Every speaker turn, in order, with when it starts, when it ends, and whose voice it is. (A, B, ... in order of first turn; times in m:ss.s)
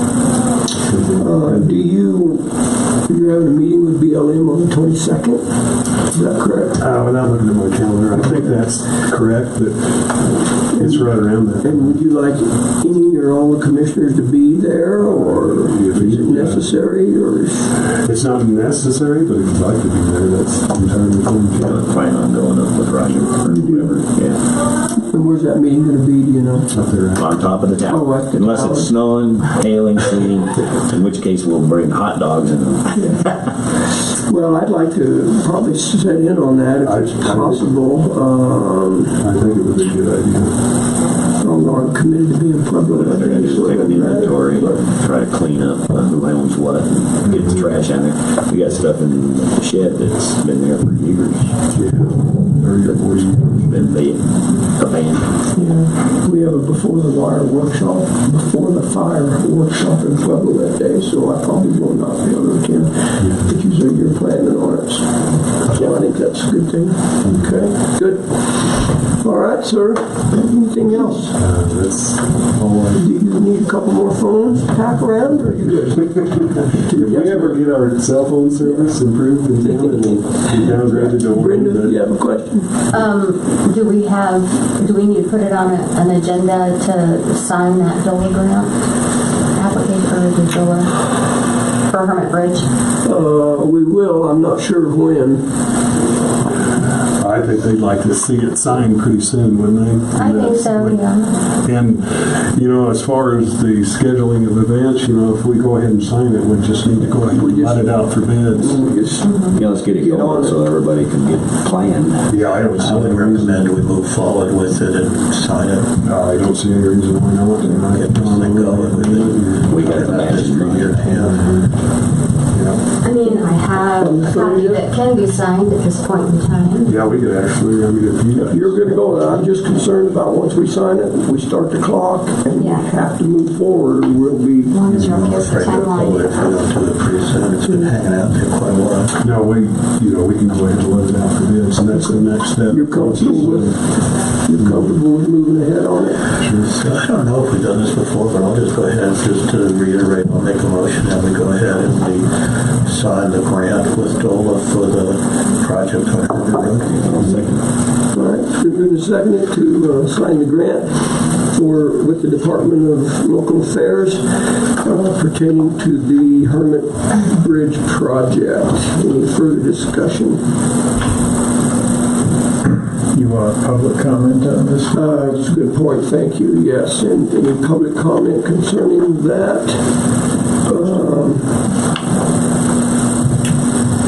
0:00.8-0:01.8 A
0:01.2-0:05.5 B
0:06.1-0:06.8 B
0:06.8-0:11.9 A
0:10.7-0:17.8 B
0:15.0-0:16.7 A
0:18.0-0:21.8 A
0:21.6-0:24.4 C
0:23.4-0:24.0 B
0:25.1-0:26.7 B
0:26.7-0:27.7 A
0:27.1-0:33.1 C
0:27.9-0:28.9 B
0:32.9-0:33.3 B
0:34.0-0:39.2 B
0:36.8-0:37.7 A
0:39.2-0:40.6 A
0:41.4-0:44.9 B
0:42.9-0:51.6 C
0:47.3-0:47.7 A
0:51.7-0:53.6 A
0:53.6-0:55.3 C
0:55.6-1:11.4 B
1:03.2-1:03.6 A
1:11.4-1:13.1 A
1:13.0-1:17.6 B
1:16.3-1:22.0 A
1:19.6-1:22.7 B
1:22.9-1:28.7 D
1:29.5-1:31.0 D
1:31.9-1:32.7 D
1:33.0-1:35.5 B
1:37.2-1:41.0 A
1:40.2-1:41.3 D
1:41.6-1:48.8 A
1:47.2-1:50.6 B
1:49.2-1:49.6 D
1:49.5-1:52.3 C
1:52.3-1:53.8 A
1:52.3-1:55.9 E
1:56.0-2:00.2 A
1:57.8-2:01.5 E
1:59.7-2:00.9 C
2:01.0-2:01.8 A
2:02.5-2:02.8 A
2:03.0-2:07.0 D
2:03.2-2:04.9 B
2:06.9-2:08.9 A
2:08.3-2:15.9 B
2:12.6-2:12.9 D
2:14.7-2:16.5 D
2:14.9-2:15.4 A
2:15.0-2:19.2 E
2:19.2-2:23.8 A
2:21.9-2:26.3 B
2:24.6-2:24.9 A
2:26.4-2:26.7 A
2:26.6-2:37.2 E
2:36.9-2:37.6 C
2:38.1-2:50.4 B
2:53.1-2:55.4 F
2:54.9-3:00.0 B
3:00.6-3:01.6 B